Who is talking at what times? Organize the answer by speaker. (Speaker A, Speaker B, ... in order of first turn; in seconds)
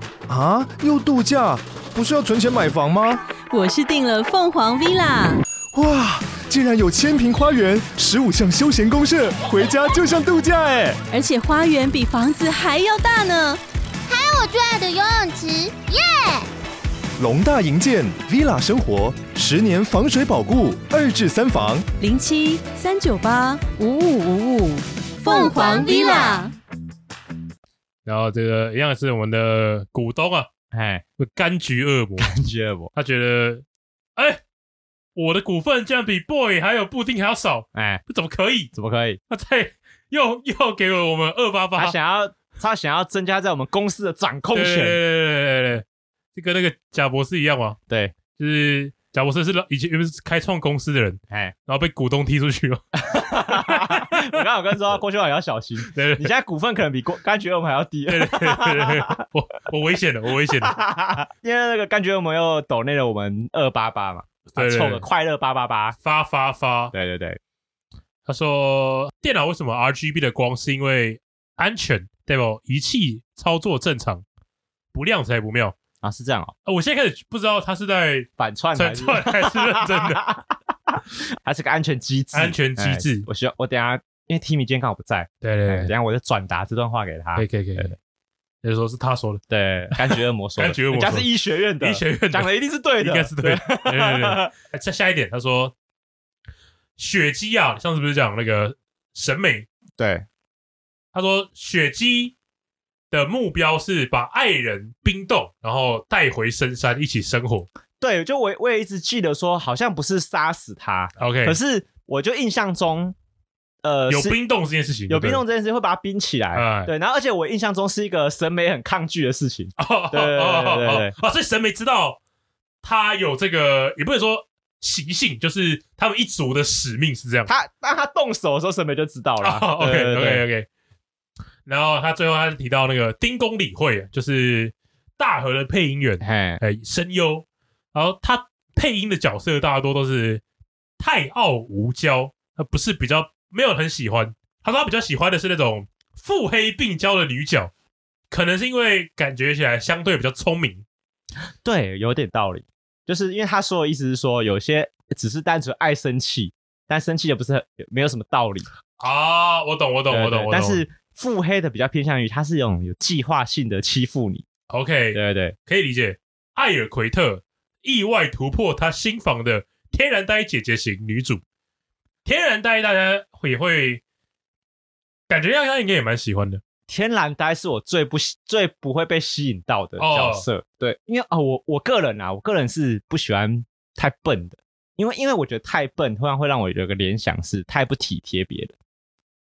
Speaker A: 0.3-3.2, 5.7-11.0, 17.2-21.9
Speaker B: 3.5-5.4, 11.1-13.6, 22.0-26.5
Speaker C: 14.1-16.5, 25.2-26.4
Speaker D: 28.1-30.5, 31.2-32.3, 32.9-33.6, 34.1-34.4, 35.1-38.7, 39.3-42.0, 44.5-47.8, 48.3-52.8, 53.3-54.3, 55.9-56.3, 58.1-60.7, 64.5-65.0, 66.0-66.9, 68.2-74.2, 74.9-75.8, 76.6-80.2, 82.3-83.3, 85.4-85.9, 87.3-87.9, 88.6-89.4, 89.9-91.3, 91.8-95.7, 97.0-99.7, 101.1-102.3, 103.1-107.7, 111.2-111.6, 114.1-115.4, 116.5-116.9, 119.8-122.2, 122.8-127.5, 129.4-130.7, 131.7-140.4, 141.0-147.7, 148.3-150.8, 159.0-160.8, 164.7-171.4, 172.2-174.0, 175.3-176.6, 180.0-180.4
Speaker E: 30.7-31.0, 32.2-32.9, 37.7-38.0, 38.7-39.2, 41.8-45.0, 47.9-48.1, 53.0-59.2, 60.6-66.0, 66.9-67.4, 76.0-76.5, 78.4-87.9, 89.5-94.5, 100.0-100.2, 108.0-113.1, 113.8-114.4, 115.1-121.1, 127.5-130.4, 136.2-136.6, 151.6-158.7, 160.1-164.4, 165.1-165.6, 176.9-188.7